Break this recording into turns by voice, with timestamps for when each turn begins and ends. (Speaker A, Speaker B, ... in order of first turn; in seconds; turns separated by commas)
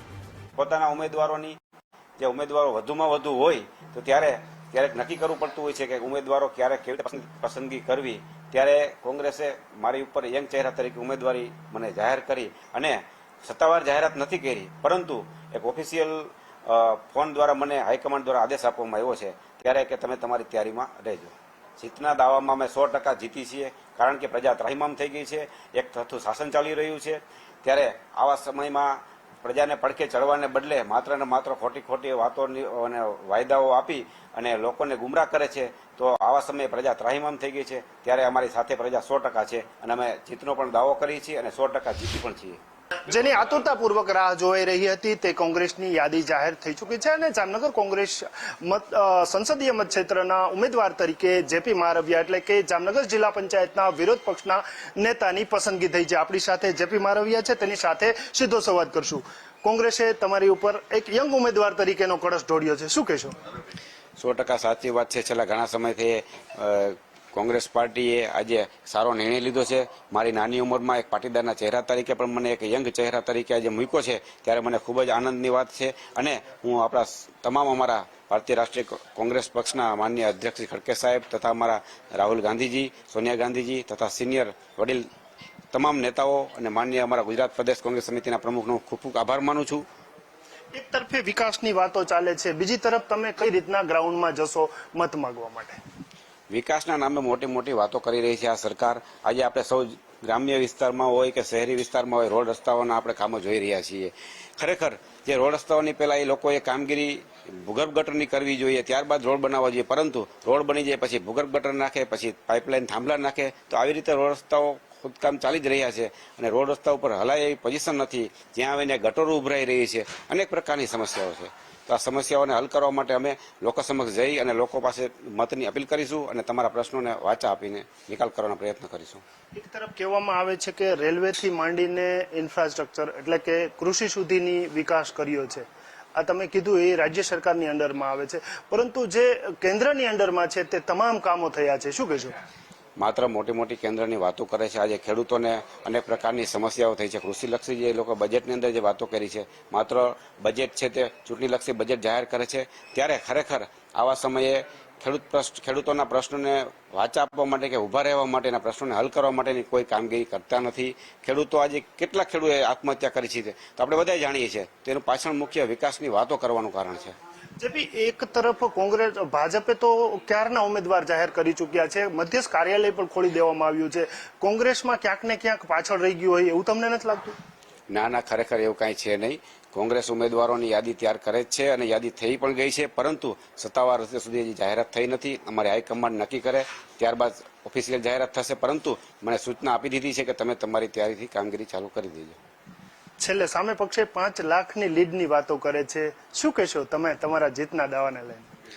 Speaker A: 0.6-1.6, Speaker A: 2.2-42.6, Speaker B: 43.1-63.4, Speaker A: 64.2-85.1, Speaker A: 85.7-89.8, Speaker B: 90.7-95.8, Speaker A: 96.5-129.2, Speaker B: 129.5-142.4, Speaker A: 143.0-167.2, Speaker B: 167.6-177.3, Speaker A: 177.9-192.4, Speaker B: 193.2-198.5